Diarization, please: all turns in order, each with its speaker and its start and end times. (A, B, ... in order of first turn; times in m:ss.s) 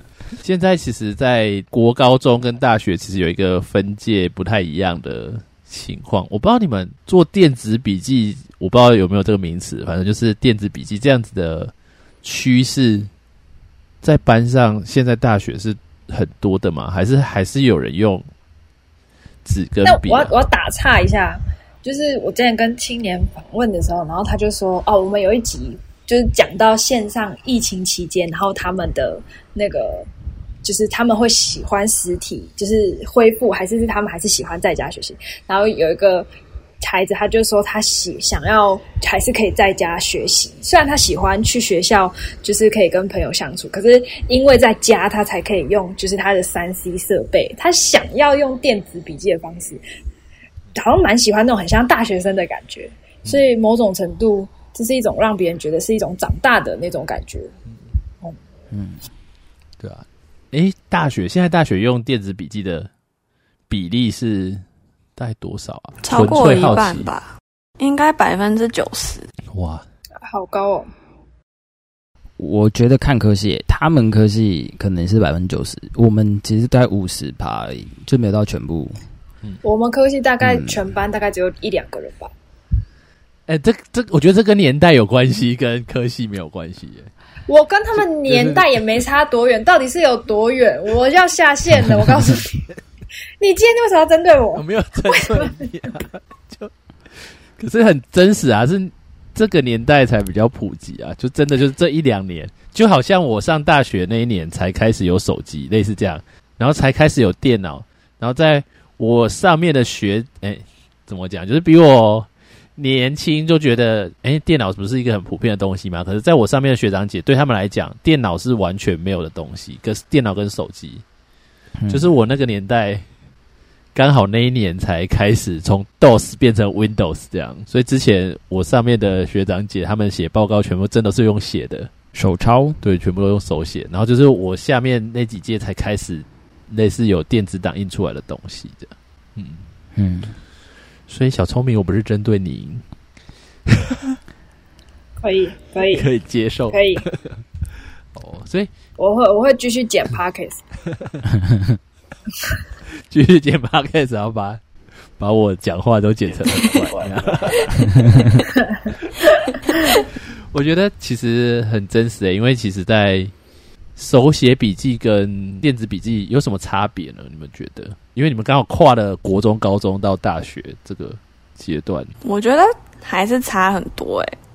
0:00.4-0:13.1 A
0:14.0-0:18.2 A
0:19.4-0:20.3 A
0:19.8-0:30.1 B
0:30.6-0:36.3 B
0:36.8-0:49.8 B
0:50.7-0:57.5 B
0:58.7-0:59.0 C
0:59.8-1:02.9 A
1:03.7-1:04.6 A
1:05.2-1:07.1 A
1:06.0-1:09.3 D
1:09.5-1:09.8 A
1:10.2-1:10.9 B
1:12.4-1:19.0 C
1:19.6-1:22.3 B
1:20.4-1:20.8 C
1:23.5-1:27.1 A
1:27.5-1:32.6 B
1:28.0-1:28.7 A
1:33.4-1:35.5 B
1:34.5-1:36.7 A
1:37.6-2:01.0 A
2:01.8-2:02.1 C
2:01.9-2:03.0 A
2:03.9-2:11.9 A
2:12.1-2:12.8 C
2:12.8-2:19.6 A
2:20.0-2:20.3 C
2:21.1-2:22.8 A
2:23.7-2:24.2 A
2:25.2-2:26.1 B
2:25.9-2:27.4 A
2:26.7-2:27.0 B
2:28.1-2:28.7 A
2:29.0-2:30.6 B
2:30.9-2:31.2 A
2:33.0-2:34.6 A
2:35.2-2:38.5 A
2:37.9-2:38.2 C
2:39.9-2:43.3 A
2:44.0-2:52.1 A
2:52.2-2:54.3 D